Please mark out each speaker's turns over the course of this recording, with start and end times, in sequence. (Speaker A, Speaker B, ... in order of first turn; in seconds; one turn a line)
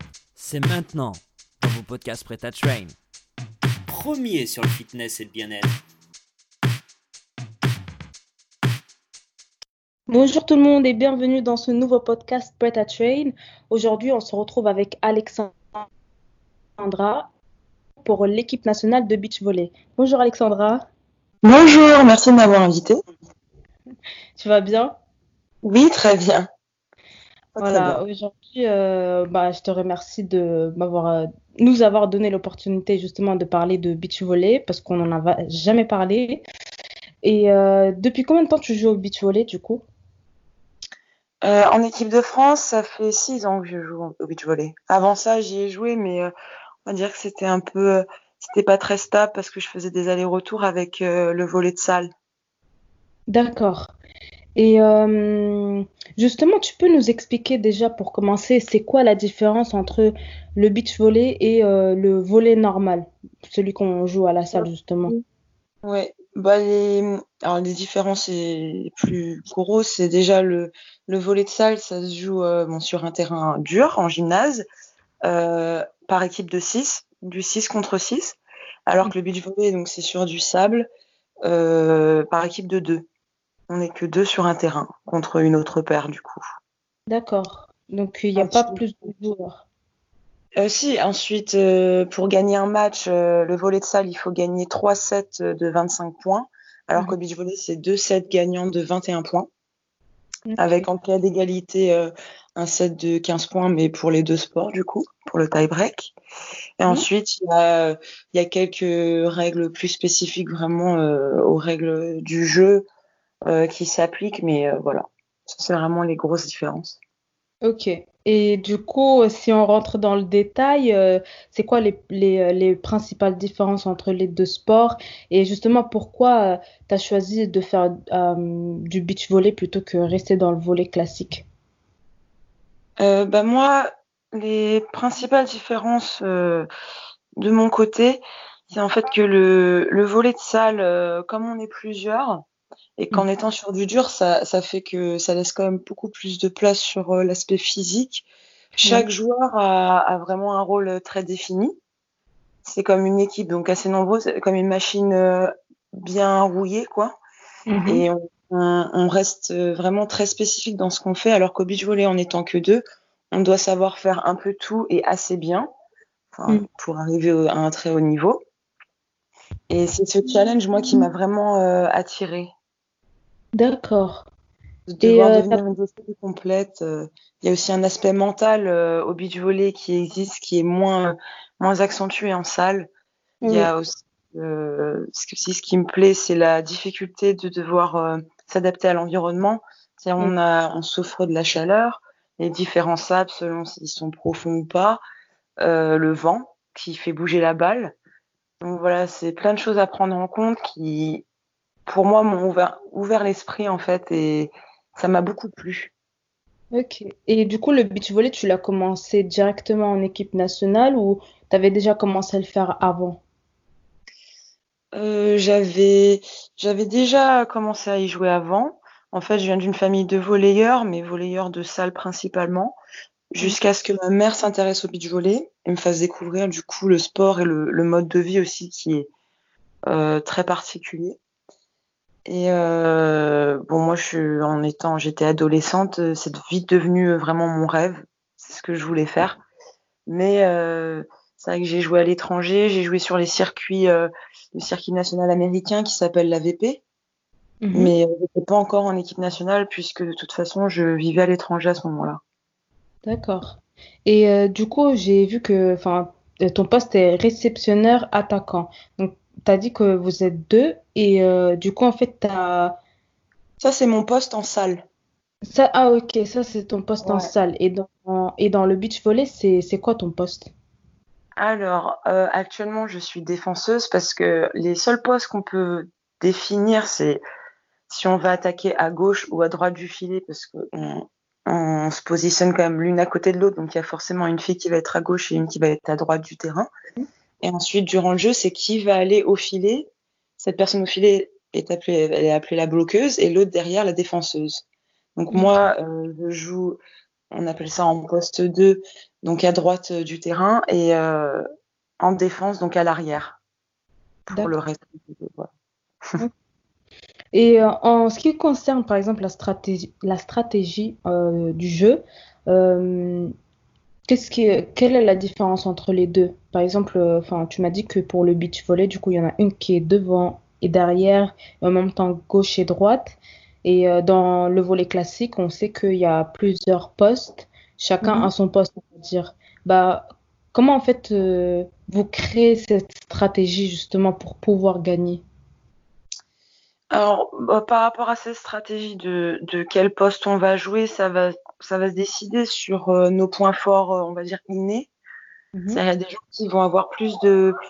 Speaker A: 0.4-3.0
Speaker A: 3.9-5.8
Speaker B: 10.1-15.8
Speaker B: 16.8-17.3
Speaker B: 18.0-20.9
Speaker C: 21.4-23.0
Speaker B: 24.4-24.9
Speaker C: 25.6-26.5
Speaker C: 27.6-28.0
Speaker B: 27.6-36.4
Speaker B: 37.2-39.9
Speaker C: 41.4-46.3
Speaker C: 46.9-52.1
Speaker B: 53.3-53.9
Speaker B: 54.6-65.1
Speaker C: 64.5-65.2
Speaker C: 65.8-74.7
Speaker C: 75.3-80.9
Speaker C: 81.5-83.0
Speaker C: 83.7-86.4
Speaker B: 87.1-89.7
Speaker C: 88.4-88.8
Speaker C: 90.6-99.5
Speaker B: 100.5-100.9
Speaker C: 100.6-106.2
Speaker C: 106.8-112.8
Speaker C: 113.5-117.0
Speaker B: 117.6-131.4
Speaker C: 133.0-136.7
Speaker C: 137.4-142.4
Speaker C: 143.0-148.3
Speaker C: 148.8-151.7
Speaker C: 152.7-157.2
Speaker B: 157.7-158.1
Speaker C: 157.9-165.7
Speaker C: 166.3-168.4
Speaker C: 169.7-172.5
Speaker B: 173.6-174.3
Speaker C: 174.9-182.9
Speaker B: 175.0-175.6
Speaker B: 183.4-183.7
Speaker C: 183.4-195.0
Speaker C: 195.6-197.9
Speaker C: 198.6-201.2
Speaker C: 201.9-205.9
Speaker B: 206.7-213.2
Speaker C: 214.9-222.8
Speaker C: 223.3-229.1
Speaker C: 229.9-231.2
Speaker C: 232.3-239.4
Speaker C: 240.1-246.8
Speaker B: 247.6-248.0
Speaker C: 247.7-252.2
Speaker B: 253.0-262.8
Speaker C: 263.6-264.8
Speaker B: 265.4-270.5
Speaker C: 267.1-267.3
Speaker C: 271.4-277.2
Speaker C: 277.9-286.7
Speaker C: 287.4-289.9
Speaker C: 290.4-294.6
Speaker C: 295.2-296.8
Speaker B: 295.3-295.6
Speaker C: 297.3-301.4
Speaker C: 302.0-303.4
Speaker C: 304.3-305.5
Speaker B: 307.3-313.3
Speaker B: 314.1-335.2
Speaker C: 328.0-328.3
Speaker C: 336.9-344.9
Speaker B: 345.6-345.8
Speaker C: 345.7-347.6